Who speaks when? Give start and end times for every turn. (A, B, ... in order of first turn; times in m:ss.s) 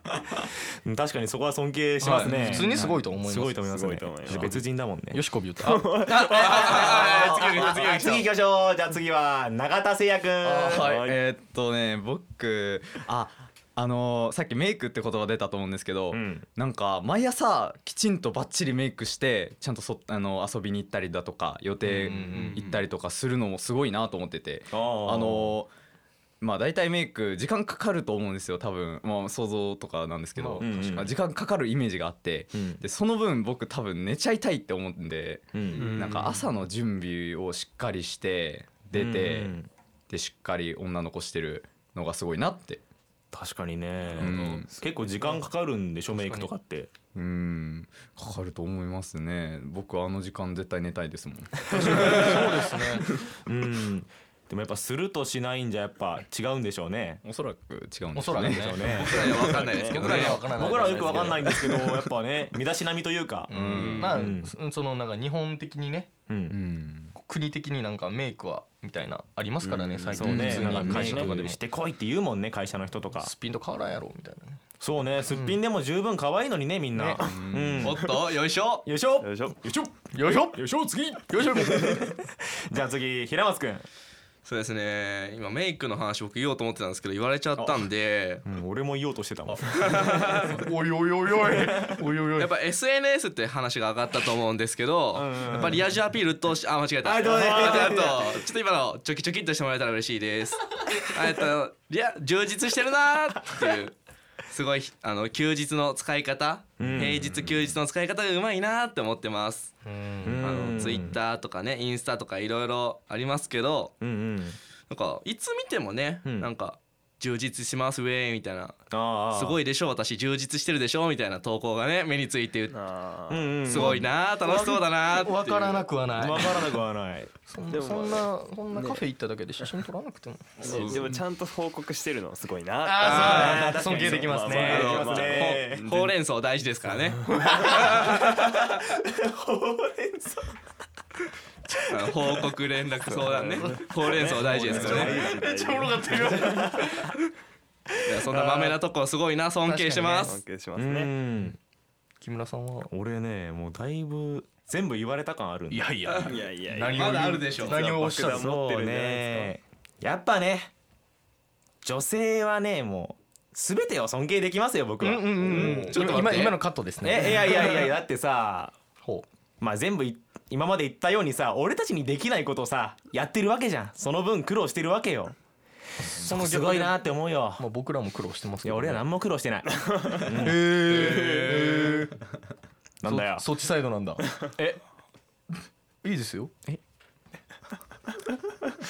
0:00.4-0:05.2 A
0:02.0-0:03.6 B
0:02.5-0:03.0 C
0:03.6-0:04.6 D
0:05.1-0:06.1 B
0:05.6-0:06.6 D
0:06.1-0:08.3 E
0:06.1-0:11.0 A
0:10.4-0:25.7 C
0:10.8-0:11.2 D
0:16.1-0:16.4 A
0:21.8-0:22.6 B
0:22.3-0:22.9 E
0:24.7-0:25.6 A
0:26.4-0:39.6 C
0:30.4-0:31.1 A
0:32.5-0:32.8 A
0:35.5-0:36.1 A
0:35.8-0:36.4 D
0:38.9-0:39.7 A
0:40.1-0:42.8 C
0:43.3-0:46.9 A
0:44.2-0:44.7 C
0:46.1-0:46.5 B
0:47.1-0:52.4 C
0:51.8-0:52.4 A
0:52.0-0:53.1 B
0:53.2-0:57.2 A
0:57.2-0:59.7 C
0:58.1-1:01.6 B
0:58.4-1:04.5 A
0:59.0-1:00.5 E
1:01.5-1:01.9 C
1:03.5-1:06.1 B
1:03.5-1:04.1 C
1:03.7-1:04.1 D
1:06.3-1:06.6 A
1:06.5-1:07.2 C
1:07.2-1:11.6 B
1:09.6-1:11.3 D
1:10.2-1:13.3 A
1:10.3-1:11.3 C
1:13.2-1:14.6 B
1:14.8-1:18.3 A
1:15.3-1:15.6 B
1:17.0-1:17.2 B
1:17.2-1:17.9 C
1:17.8-1:18.9 E
1:18.9-1:23.9 A
1:19.2-1:19.6 D
1:20.1-1:20.6 B
1:21.3-1:22.1 B
1:24.4-1:28.4 E
1:27.6-1:27.8 C
1:28.4-1:30.5 A
1:29.5-1:30.4 C
1:29.9-1:30.5 E
1:30.4-1:32.5 B
1:31.6-1:31.9 A
1:32.4-1:49.8 E
1:35.1-1:35.8 A
1:37.0-1:38.4 A
1:46.8-1:47.7 A
1:49.8-1:50.4 B
1:50.2-1:51.2 A
1:50.4-1:54.0 E
1:54.0-1:54.6 A
1:54.9-2:02.7 E
1:56.2-1:56.5 A
1:58.9-1:59.6 A
2:02.7-2:03.6 D
2:03.3-2:04.1 A
2:03.7-2:05.9 E
2:04.5-2:06.8 B
2:06.2-2:07.3 A
2:07.5-2:11.0 B
2:07.7-2:09.0 D
2:10.6-2:11.1 C
2:10.6-2:16.1 D
2:12.8-2:15.2 B
2:13.0-2:13.7 E
2:13.0-2:15.9 A
2:14.6-2:18.3 E
2:17.3-2:17.7 B
2:17.9-2:20.6 A
2:21.7-2:22.5 A
2:21.9-2:25.2 E
2:23.2-2:26.5 D
2:23.5-2:27.1 B
2:24.5-2:25.4 A
2:26.3-2:27.1 A
2:28.1-2:30.4 E
2:29.6-2:30.4 B
2:30.2-2:31.1 D
2:30.8-2:31.6 A
2:32.2-2:32.9 B
2:32.9-2:35.9 A
2:35.7-2:38.5 B
2:36.2-2:39.5 D
2:36.9-2:37.8 E
2:38.2-2:40.7 A
2:41.8-2:46.5 A
2:45.0-2:47.9 B
2:45.9-2:46.6 E
2:47.0-2:48.8 A
2:49.6-2:55.4 A
2:56.0-2:59.0 B
2:56.1-2:57.6 A
2:58.6-3:00.8 A
2:59.7-3:00.2 D
3:00.4-3:02.2 B
3:00.9-3:01.6 D
3:03.0-3:03.4 A
3:03.0-3:04.3 B
3:04.6-3:04.8 A
3:06.0-3:06.5 B